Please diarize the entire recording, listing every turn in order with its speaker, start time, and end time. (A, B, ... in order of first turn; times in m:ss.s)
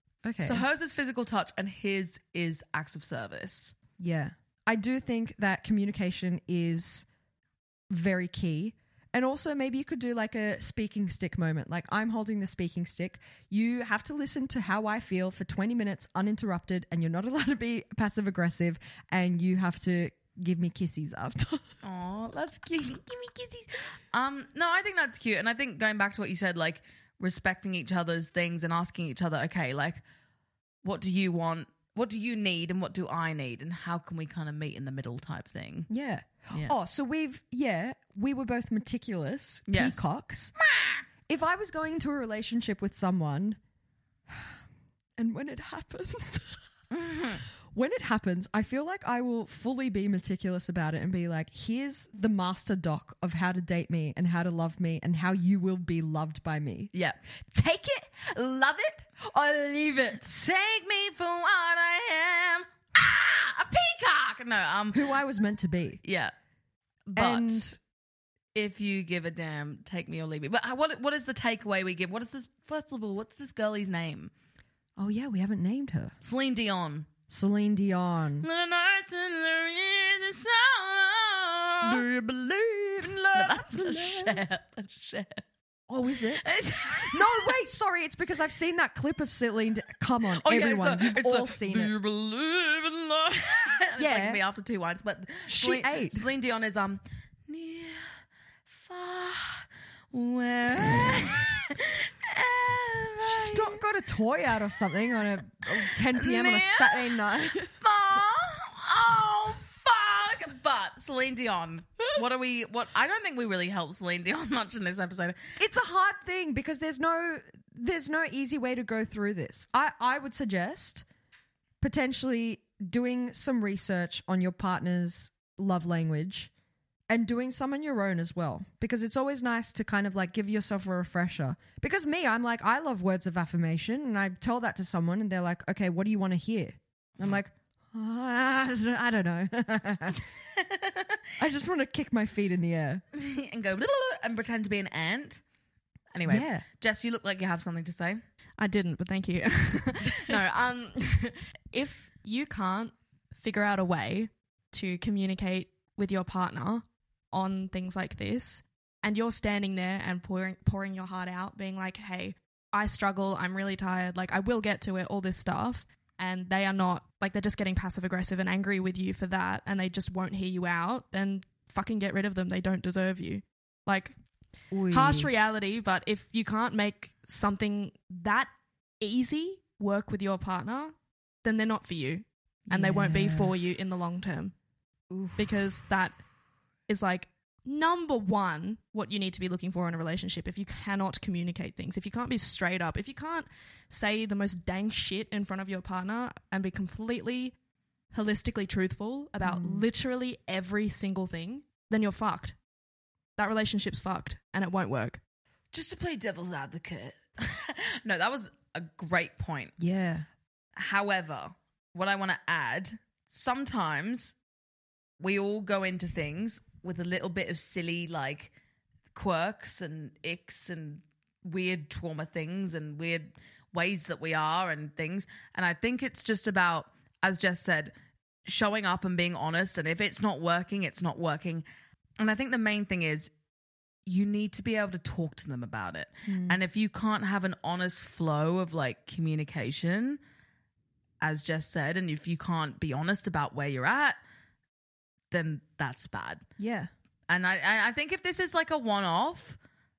0:00.2-0:00.6 A
0:00.4-0:03.7 B
0:04.0-0:07.1 A
0:07.9-0:21.7 A
0:21.8-0:30.0 B
0:30.8-0:35.9 B
0:35.9-0:40.5 A
0:39.7-0:40.1 B
0:40.6-0:41.0 B
0:41.3-0:43.6 A
0:44.3-0:44.6 A
0:45.2-0:46.6 A
0:46.9-0:47.4 B
0:47.7-0:56.9 A
0:56.9-0:57.2 B
0:57.5-1:00.4 A
1:00.3-1:05.1 B
1:04.9-1:06.0 A
1:06.0-1:06.3 B
1:07.1-1:07.7 B
1:07.2-1:07.8 A
1:08.6-1:14.3 B
1:15.0-1:16.2 A
1:16.2-1:17.1 B
1:17.3-1:18.5 A
1:18.4-1:22.0 B
1:21.8-1:24.4 A
1:23.0-1:25.4 B
1:25.9-1:26.4 A
1:26.4-1:27.6 B
1:27.1-1:31.9 A
1:30.4-1:43.8 B
1:34.0-1:34.4 A
1:35.5-1:36.2 A
1:43.2-1:47.7 A
1:46.1-1:55.4 B
1:55.6-2:01.0 A
2:01.8-2:06.5 A
2:07.1-2:20.2 A
2:20.6-2:21.2 B
2:21.4-2:23.0 A
2:23.1-2:25.4 B
2:26.1-2:28.2 B
2:26.3-2:26.6 A
2:28.6-2:54.2 C
2:54.7-2:55.3 A
2:54.9-3:04.5 C
3:02.7-3:03.6 A
3:05.4-3:06.2 C
3:06.9-3:17.6 C
3:18.1-3:22.6 C
3:19.4-3:19.9 A
3:23.4-3:25.2 C
3:25.7-3:29.8 B
3:29.8-3:30.3 A
3:30.8-3:34.4 B
3:35.2-3:38.5 B
3:39.1-3:47.9 B
3:48.5-3:51.6 B
3:52.2-3:53.3 B
3:54.1-4:00.2 B
3:56.3-3:56.6 A
4:01.2-4:04.2 B
4:05.3-4:06.4 B
4:06.6-4:06.9 A
4:07.3-4:09.6 B